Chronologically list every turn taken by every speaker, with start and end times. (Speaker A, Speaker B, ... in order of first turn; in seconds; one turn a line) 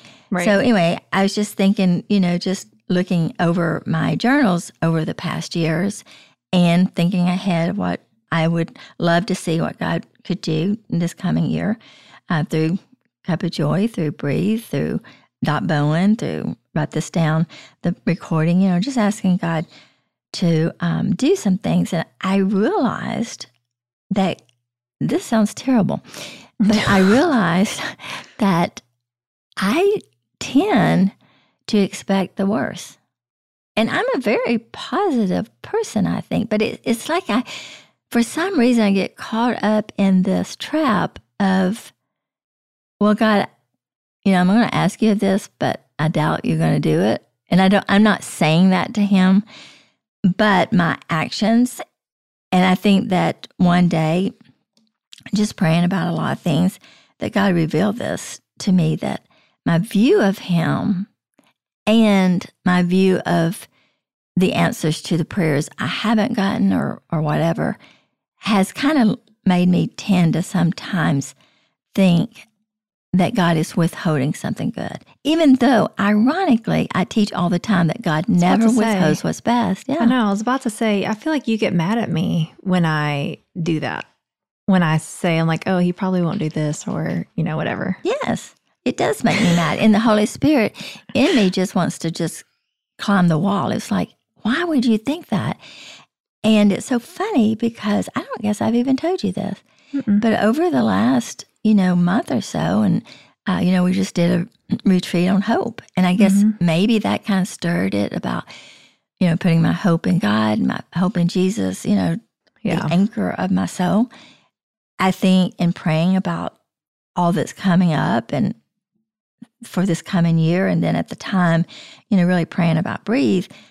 Speaker A: 0.3-0.6
Speaker B: 0.4-19.7
Speaker B: 20.3-23.5
Speaker B: 24.1-24.4
Speaker B: 25.0-28.8
Speaker A: 26.6-27.1
Speaker B: 29.6-31.1
Speaker B: 31.7-33.0
Speaker B: 33.8-41.9
Speaker B: 43.0-43.5
Speaker B: 44.2-49.4
Speaker B: 50.3-51.8
Speaker B: 52.5-54.3
Speaker B: 55.3-61.1
Speaker B: 61.9-63.7
Speaker B: 64.4-67.8
Speaker B: 68.4-71.3
Speaker B: 71.9-72.5
Speaker B: 73.1-80.2
Speaker A: 78.4-79.2
Speaker A: 80.0-84.0
Speaker A: 84.7-88.0
Speaker B: 88.0-92.4
Speaker B: 93.0-95.8
Speaker B: 96.4-99.6
Speaker A: 99.9-100.2
Speaker B: 100.2-108.5
Speaker A: 106.2-106.6
Speaker B: 109.2-114.1
Speaker A: 112.6-113.0
Speaker B: 115.0-116.6
Speaker B: 117.2-118.5
Speaker B: 119.6-123.5